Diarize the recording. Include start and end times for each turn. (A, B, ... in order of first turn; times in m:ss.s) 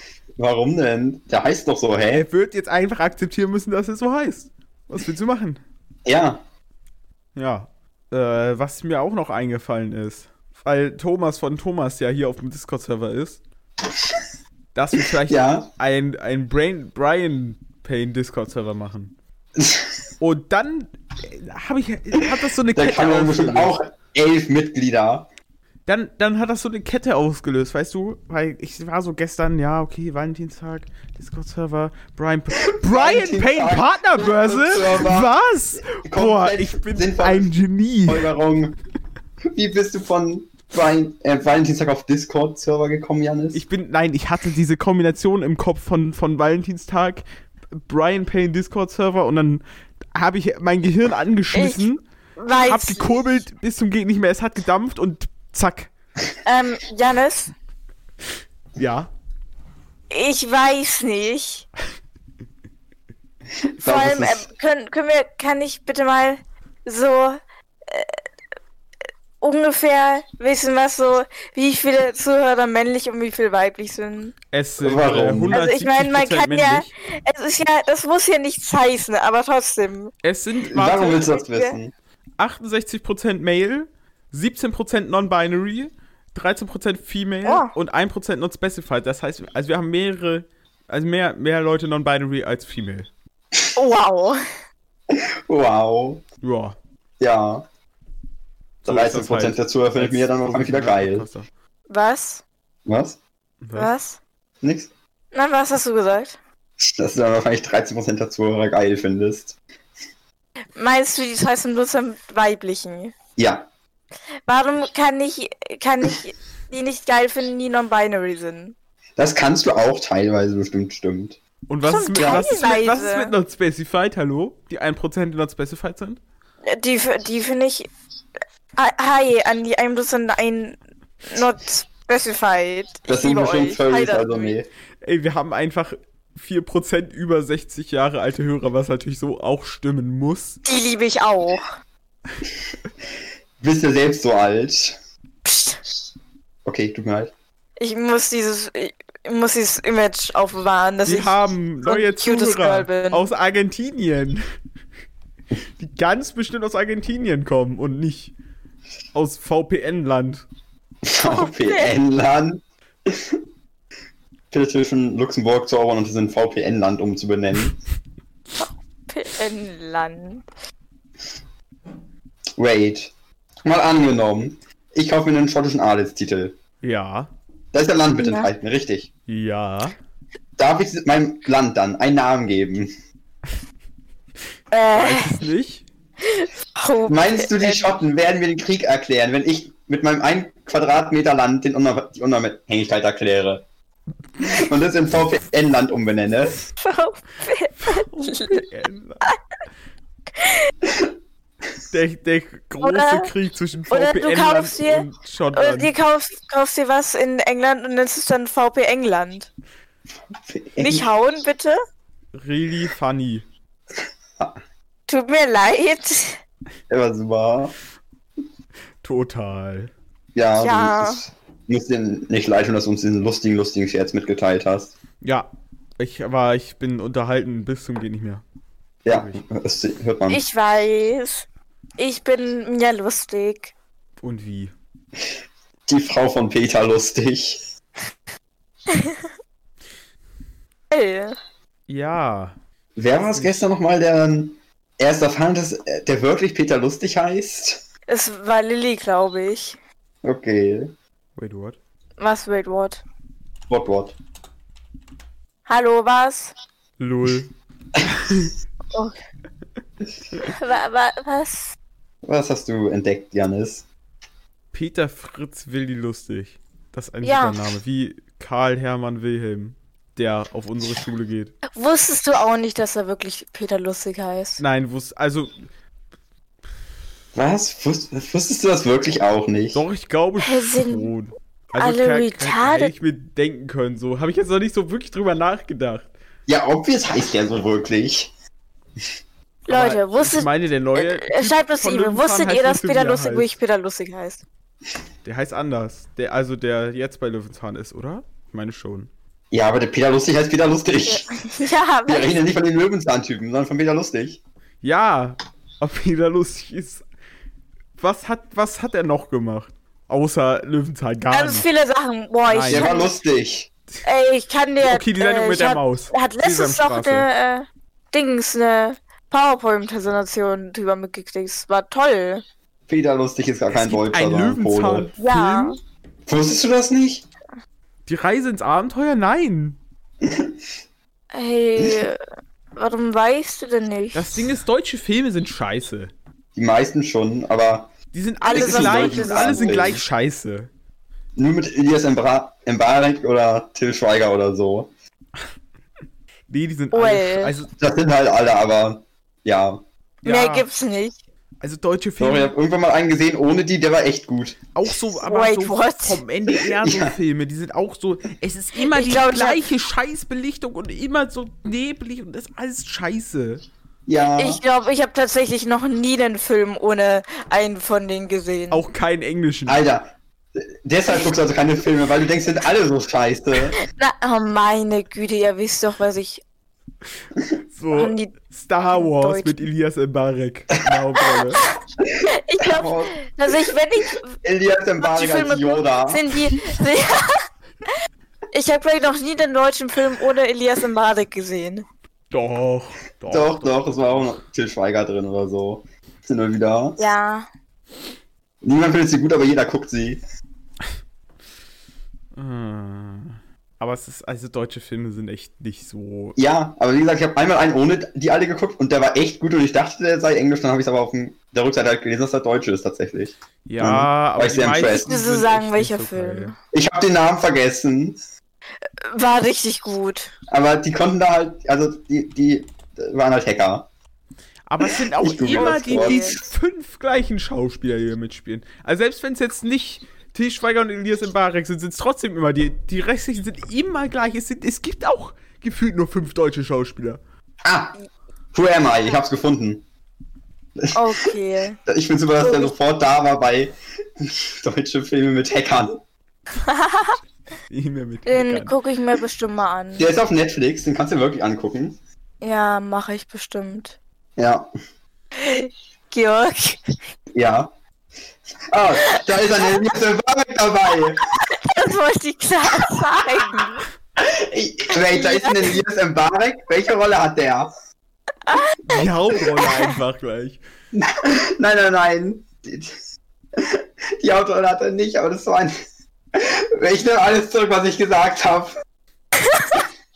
0:00.4-0:02.2 A
0:02.1-0:05.6 B
0:06.0-0:06.4 A
0:07.3-0:13.4 B
0:14.7-0:19.1 B
0:15.2-0:15.7 A
0:19.6-0:19.9 A
0:20.2-0:23.8 B
0:22.7-0:25.3 A
0:25.8-0:38.3 B
0:32.6-0:38.8 A
0:39.5-0:43.6 A
0:43.5-0:52.0 B
0:51.5-0:51.8 C
0:52.4-0:53.1 C
0:52.6-0:55.9 B
0:56.4-0:57.5 C
0:58.8-0:59.1 B
1:00.1-1:01.7 C
1:03.6-1:04.5 A
1:03.8-1:08.2 C
1:09.4-1:14.3 C
1:14.5-1:16.9 B
1:14.8-1:15.6 A
1:15.5-1:20.1 C
1:20.2-1:21.2 B
1:20.7-1:21.9 A
1:21.1-1:21.8 C
1:22.4-1:33.1 B
1:27.4-1:27.7 C
1:33.8-1:34.4 C
1:35.1-1:36.2 A
1:36.4-1:36.8 B
1:37.2-1:37.6 A
1:38.8-1:41.5 B
1:38.8-1:41.3 A
1:41.9-1:42.4 C
1:42.8-1:43.2 A
1:43.6-1:43.9 B
1:43.8-1:44.2 C
1:44.6-1:44.9 A
1:45.3-1:46.4 C
1:46.8-1:49.6 A
1:50.8-1:53.1 C
1:53.4-1:53.7 A
1:54.5-1:58.7 C
1:59.2-2:01.4 A
2:01.7-2:06.2 B
2:01.8-2:03.3 C
2:02.2-2:02.4 A
2:06.7-2:07.9 C
2:08.8-2:14.6 C
2:13.1-2:14.7 A
2:15.0-2:20.6 B
2:20.7-2:21.7 C
2:23.6-2:25.0 A
2:25.4-2:25.8 C
2:26.6-2:27.3 A
2:27.8-2:33.3 C
2:31.0-2:34.4 B
2:35.8-2:38.3 B
2:39.1-2:40.4 B
2:41.0-2:43.4 A
2:41.3-2:42.0 C
2:44.5-2:47.8 A
2:48.6-2:50.4 C
2:52.6-2:53.1 A
2:53.6-2:56.6 A
2:56.8-2:57.3 B
2:57.7-2:59.1 A
2:58.2-2:58.5 C
2:59.3-2:59.9 B
3:00.6-3:02.9 A
3:04.7-3:05.4 C
3:04.9-3:05.9 B
3:06.2-3:07.9 C
3:07.1-3:13.6 A
3:14.4-3:16.6 A
3:16.8-3:18.6 C
3:17.8-3:19.3 B
3:20.4-3:20.7 C
3:21.9-3:25.9 B
3:22.8-3:23.3 C
3:23.9-3:29.5 C
3:30.4-3:31.1 A
3:30.8-3:31.8 C
3:32.3-3:33.4 B
3:35.1-3:36.4 C
3:36.9-3:37.7 A
3:39.0-3:39.9 B
3:40.3-3:44.9 A
3:40.6-3:41.2 C
3:45.2-3:45.5 B
3:46.0-3:48.4 B
3:49.0-3:50.4 A
3:49.1-3:49.4 B
3:50.3-3:51.4 C
3:52.0-3:53.7 C
3:54.2-3:54.7 B
3:55.9-3:57.6 A
3:58.9-3:59.2 C
4:00.9-4:01.4 C
4:01.9-4:02.6 B
4:03.0-4:07.8 A
4:03.3-4:03.5 B
4:08.1-4:09.8 C
4:10.2-4:10.9 A
4:11.4-4:11.8 B
4:12.2-4:13.0 C
4:13.7-4:14.2 A
4:15.6-4:16.5 C
4:17.0-4:17.5 B
4:18.0-4:18.5 B
4:20.4-4:21.8 C
4:22.2-4:23.8 A
4:24.7-4:31.5 B
4:27.2-4:27.6 C
4:31.7-4:34.6 C
4:34.6-4:35.6 B
4:37.3-4:39.8 A
4:39.7-4:46.1 B
4:40.4-4:41.1 C
4:41.8-4:42.9 C
4:46.5-4:48.3 A
4:49.7-4:54.4 C
4:49.7-4:53.6 B
4:55.2-4:59.1 B
4:59.5-5:01.3 A
5:01.1-5:02.4 C
5:02.1-5:04.4 A
5:04.8-5:07.0 B
5:08.0-5:11.6 B
5:11.3-5:13.1 C
5:12.5-5:12.9 B
5:12.7-5:13.7 A
5:14.0-5:22.4 C
5:14.8-5:17.3 B
5:22.9-5:25.1 A
5:23.7-5:25.8 B
5:25.2-5:25.8 C
5:26.3-5:27.2 A
5:28.0-5:29.8 B
5:30.2-5:30.5 A
5:31.3-5:32.2 C
5:32.8-5:34.3 C
5:34.1-5:36.1 B
5:36.5-5:37.9 A
5:38.1-5:40.7 B
5:38.4-5:39.9 C
5:38.5-5:40.1 A
5:41.4-5:44.9 A
5:46.5-5:47.7 B
5:46.9-5:47.5 C
5:47.8-5:49.8 A
5:50.2-5:50.7 B
5:50.2-5:51.2 C
5:51.6-5:52.5 B
5:52.2-5:54.6 A
5:54.7-6:03.6 B
5:55.2-5:56.2 C
5:56.8-5:57.1 A
5:58.9-5:59.6 C
6:04.1-6:04.6 A
6:04.4-6:08.8 C
6:08.7-6:09.8 B
6:09.7-6:13.8 A
6:13.8-6:16.4 C
6:17.7-6:21.6 B
6:17.9-6:18.3 C
6:18.9-6:19.6 C
6:22.0-6:23.2 A
6:22.3-6:24.4 C
6:24.4-6:26.2 A
6:25.0-6:27.4 C
6:28.5-6:31.8 C
6:32.3-6:34.4 B
6:33.3-6:37.0 A
6:37.0-6:37.5 C
6:38.6-6:40.2 A
6:42.3-6:46.4 B
6:46.4-6:55.1 A
6:53.7-6:56.5 B
6:54.9-6:56.6 C
6:56.7-6:58.2 A
6:59.0-7:00.3 C
7:00.5-7:03.9 A
7:04.7-7:17.2 B
7:04.9-7:06.4 A
7:05.5-7:06.4 C
7:17.6-7:17.9 A
7:18.5-7:19.8 A
7:20.8-7:21.3 A
7:20.9-7:21.8 C
7:21.8-7:26.0 A
7:22.4-7:22.7 C
7:26.6-7:27.2 C
7:27.7-7:28.7 B
7:28.2-7:30.1 C
7:30.0-7:32.0 A
7:32.4-7:34.0 C
7:34.4-7:34.7 A
7:35.4-7:36.9 C
7:37.3-7:37.7 A
7:38.7-7:41.2 A
7:39.0-7:39.8 C
7:41.3-7:43.8 C
7:44.2-7:47.7 A
7:44.9-7:45.8 C
7:48.5-7:49.0 C
7:48.8-7:50.6 B
7:49.6-7:49.9 C
7:50.9-7:53.0 A
7:53.6-7:55.8 A
7:56.3-7:58.7 A